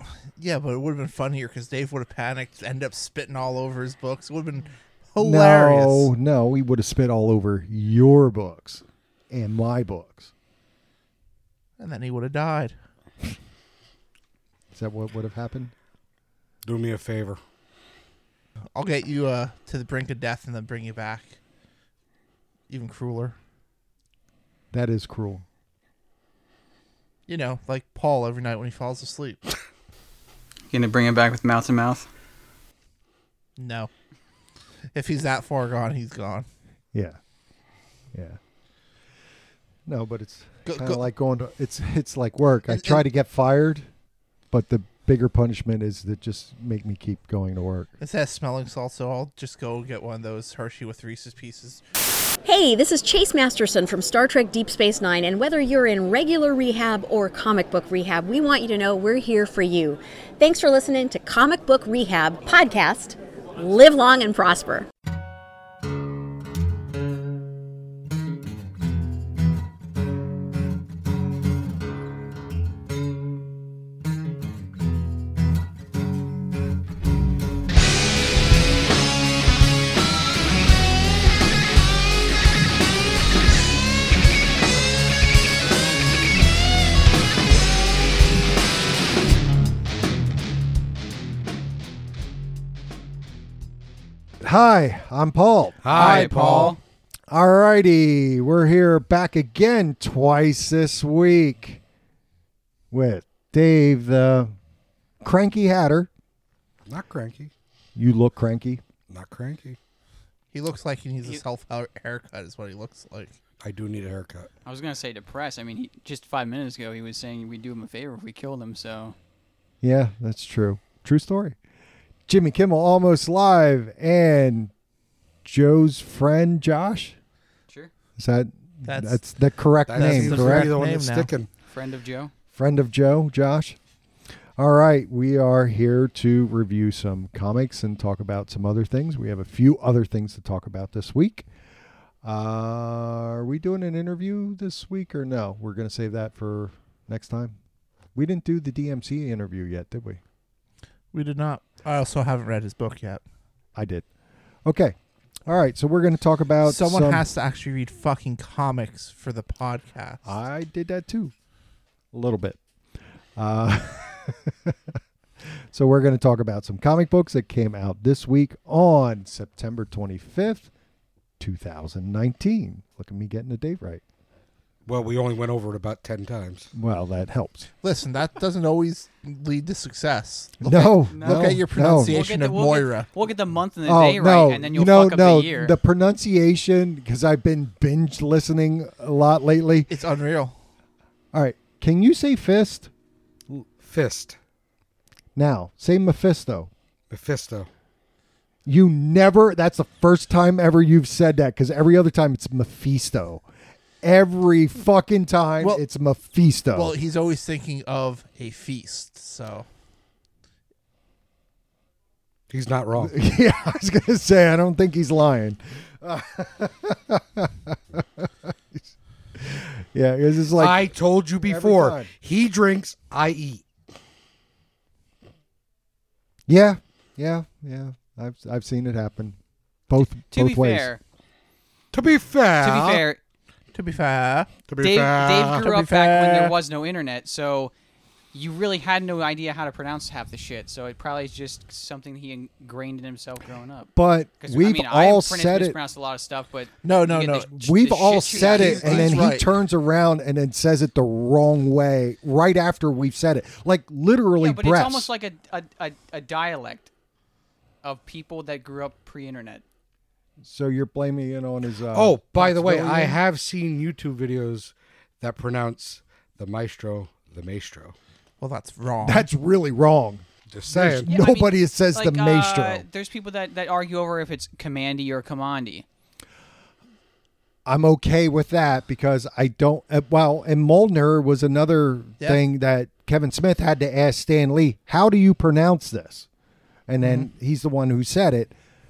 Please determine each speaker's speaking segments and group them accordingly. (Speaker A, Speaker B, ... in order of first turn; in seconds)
Speaker A: 0.4-6.1, 11.8-12.8, 18.8-21.4, 22.7-23.4, 27.3-29.5, 33.6-33.9, 34.9-36.5, 40.7-41.0, 42.7-43.0, 48.0-51.8, 96.0-96.7, 110.5-113.4, 128.8-129.2, 130.0-131.3, 151.1-153.2, 156.6-160.2, 177.8-183.1, 189.9-190.6, 206.7-209.7, 233.7-234.5, 235.6-236.6, 246.8-247.5, 248.1-249.5, 268.4-269.3
Speaker B: 5.2-10.3, 14.7-15.7, 24.7-25.4, 36.9-37.2, 38.1-38.4, 39.9-43.9, 44.5-47.9, 94.4-96.3, 97.3-101.8, 102.9-104.5, 105.2-106.1, 108.0-108.8, 119.8-121.6, 122.3-124.7, 125.5-127.2, 128.2-130.8, 132.5-133.8, 134.6-141.5, 142.2-147.6, 148.2-150.2, 153.8-154.1, 154.7-154.9, 155.5-157.2, 160.2-161.3, 162.1-162.6, 163.4-170.7, 171.4-174.0, 176.7-177.7, 180.6-182.2, 183.9-189.9, 191.3-192.9, 195.4-196.7, 198.7-203.4, 204.0-206.9, 213.0-220.9, 221.4-222.1, 226.5-229.4, 229.9-230.9, 243.9-245.8, 247.6-255.1, 260.4-263.2, 269.0-272.9, 277.7-286.3, 286.9-288.5
Speaker C: 16.6-17.4, 95.8-96.8, 106.9-107.5, 109.1-109.8, 113.6-114.5, 129.9-131.5, 174.9-176.7, 193.8-194.4, 197.1-197.7, 212.5-213.1, 220.6-223.6, 231.9-233.0, 234.7-235.7, 261.9-267.9, 270.5-271.1
Speaker D: 30.7-32.1, 95.9-96.8, 114.7-119.2, 131.7-132.3, 181.1-185.8, 230.3-231.0, 232.6-233.2, 234.8-237.7, 238.3-249.2, 254.4-256.9, 257.8-259.6, 271.1-275.9
Speaker E: 52.5-64.9